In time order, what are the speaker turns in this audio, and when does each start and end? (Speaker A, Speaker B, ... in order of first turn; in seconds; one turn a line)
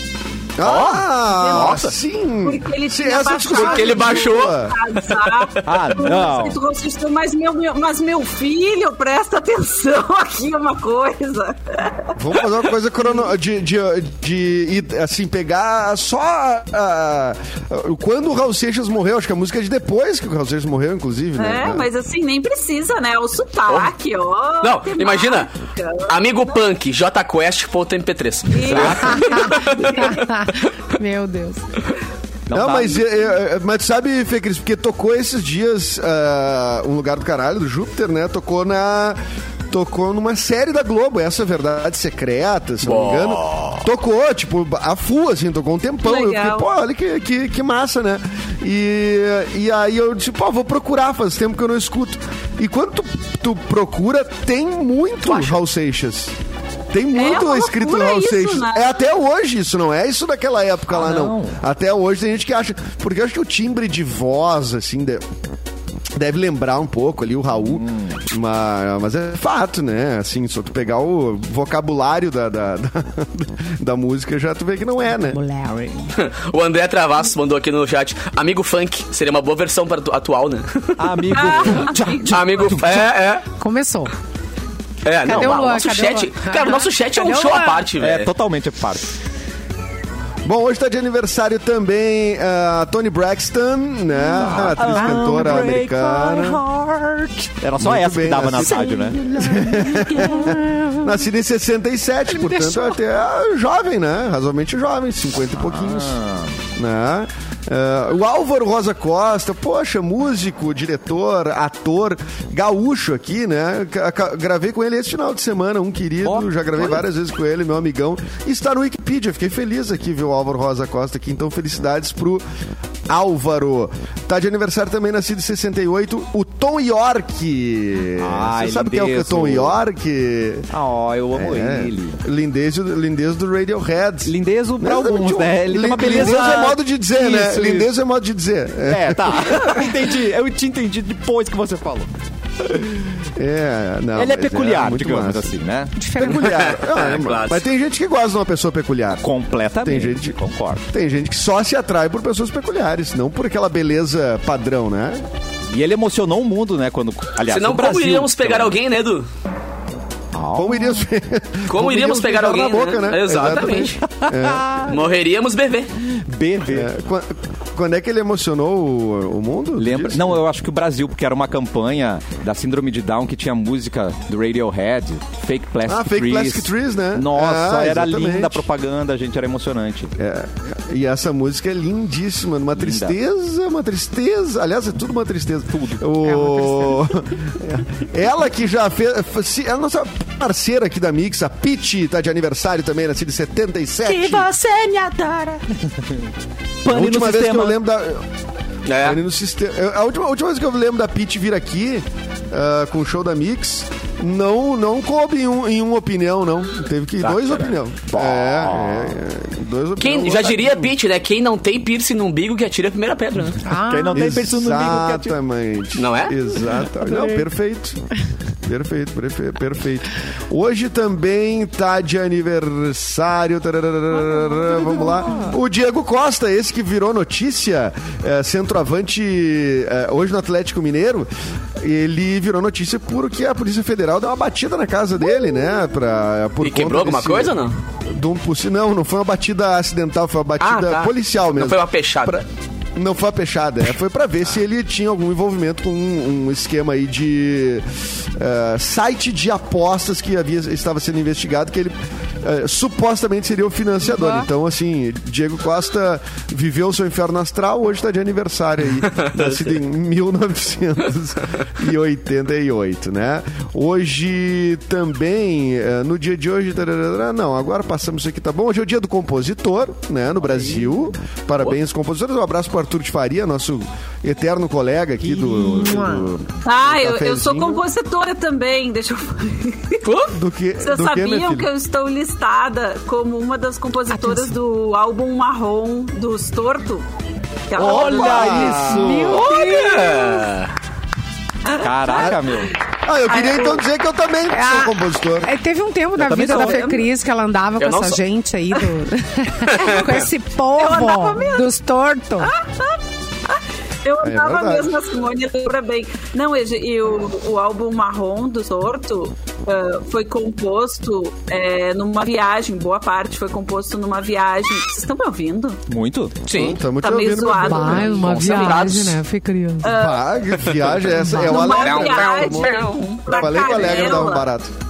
Speaker A: 0.6-4.8
Speaker B: 0.6-1.9
Speaker C: 1.3-1.8
Speaker C: 2.4-12.1
Speaker B: 3.5-5.6
Speaker D: 5.7-6.6
Speaker A: 12.2-21.9
Speaker C: 21.4-26.6
Speaker B: 24.6-25.5
Speaker B: 26.1-30.4
Speaker C: 28.5-29.6
Speaker D: 28.7-29.3
Speaker E: 29.1-31.6
Speaker D: 32.5-33.1
Speaker A: 32.5-39.2
Speaker A: 39.7-56.3
Speaker B: 42.8-43.9
Speaker C: 46.0-46.7
Speaker B: 55.2-55.6
Speaker A: 56.9-65.2
Speaker C: 57.1-59.1
Speaker D: 60.9-61.6
Speaker A: 66.2-75.4
Speaker D: 67.7-68.2
Speaker E: 75.2-76.1
Speaker B: 76.2-81.1
Speaker D: 81.0-83.1
Speaker C: 81.3-82.4
Speaker B: 82.3-83.5
Speaker E: 83.6-84.1
Speaker B: 85.0-88.3
Speaker E: 85.2-87.9
Speaker D: 88.0-89.1
Speaker A: 90.4-96.6
Speaker D: 94.2-99.6
Speaker E: 94.9-95.6
Speaker A: 97.8-106.2
Speaker E: 98.6-101.2
Speaker E: 102.3-103.0
Speaker D: 105.5-106.6
Speaker A: 106.8-122.5
Speaker D: 116.2-117.1
Speaker A: 123.1-130.7
Speaker D: 128.2-129.8
Speaker D: 130.7-132.2
Speaker A: 131.3-139.8
Speaker D: 134.2-137.9
Speaker E: 136.1-136.4
Speaker D: 138.9-142.1
Speaker A: 143.4-145.5
Speaker D: 144.2-145.9
Speaker E: 146.0-146.5
Speaker A: 146.2-149.3
Speaker B: 146.4-147.7
Speaker D: 149.2-150.8
Speaker A: 149.8-150.4
Speaker A: 150.9-155.2
Speaker D: 155.7-158.8
Speaker B: 157.4-159.3
Speaker D: 160.3-161.1
Speaker A: 160.6-164.8
Speaker B: 161.7-164.0
Speaker D: 163.7-165.0
Speaker B: 164.9-165.9
Speaker D: 166.1-166.9
Speaker A: 166.7-170.4
Speaker D: 169.8-180.1
Speaker A: 175.9-178.7
Speaker A: 180.2-194.5
Speaker D: 182.8-183.2
Speaker D: 185.7-186.1
Speaker E: 186.2-187.1
Speaker D: 194.0-196.3
Speaker D: 196.8-197.8
Speaker A: 196.9-198.2
Speaker B: 198.9-199.2
Speaker A: 199.0-210.9
Speaker B: 207.2-207.7
Speaker D: 208.1-209.2
Speaker B: 210.0-213.6
Speaker E: 213.7-214.2
Speaker D: 213.7-215.4
Speaker A: 214.1-218.0
Speaker B: 215.9-216.4
Speaker D: 217.0-217.4
Speaker A: 218.7-237.6
Speaker E: 224.3-225.6
Speaker B: 236.6-237.8
Speaker A: 238.1-242.4
Speaker B: 240.6-242.4
Speaker A: 243.0-277.8
Speaker E: 254.0-254.5
Speaker B: 259.2-259.6
Speaker D: 275.2-276.4
Speaker E: 275.8-276.2
Speaker C: 276.6-280.1
Speaker B: 280.0-280.3
Speaker A: 280.3-281.7
Speaker C: 280.8-287.1
Speaker E: 284.1-284.5
Speaker C: 287.7-288.7
Speaker D: 287.8-289.5
Speaker A: 287.8-289.3
Speaker E: 288.8-290.4
Speaker B: 289.3-290.7
Speaker C: 291.7-292.4
Speaker D: 291.8-292.7
Speaker A: 293.1-295.5
Speaker C: 293.3-293.8
Speaker E: 294.5-302.5
Speaker D: 296.2-296.8
Speaker C: 296.5-297.1
Speaker B: 297.8-298.2
Speaker B: 299.7-300.3
Speaker C: 300.8-301.7
Speaker C: 302.4-315.8
Speaker A: 304.2-304.9
Speaker D: 315.9-316.5
Speaker B: 316.5-316.8
Speaker A: 316.5-318.4
Speaker C: 317.0-318.9
Speaker E: 317.6-319.9
Speaker B: 318.2-319.2
Speaker C: 319.8-320.7
Speaker A: 319.9-324.7
Speaker E: 321.1-321.6
Speaker C: 321.4-324.5
Speaker B: 321.6-324.2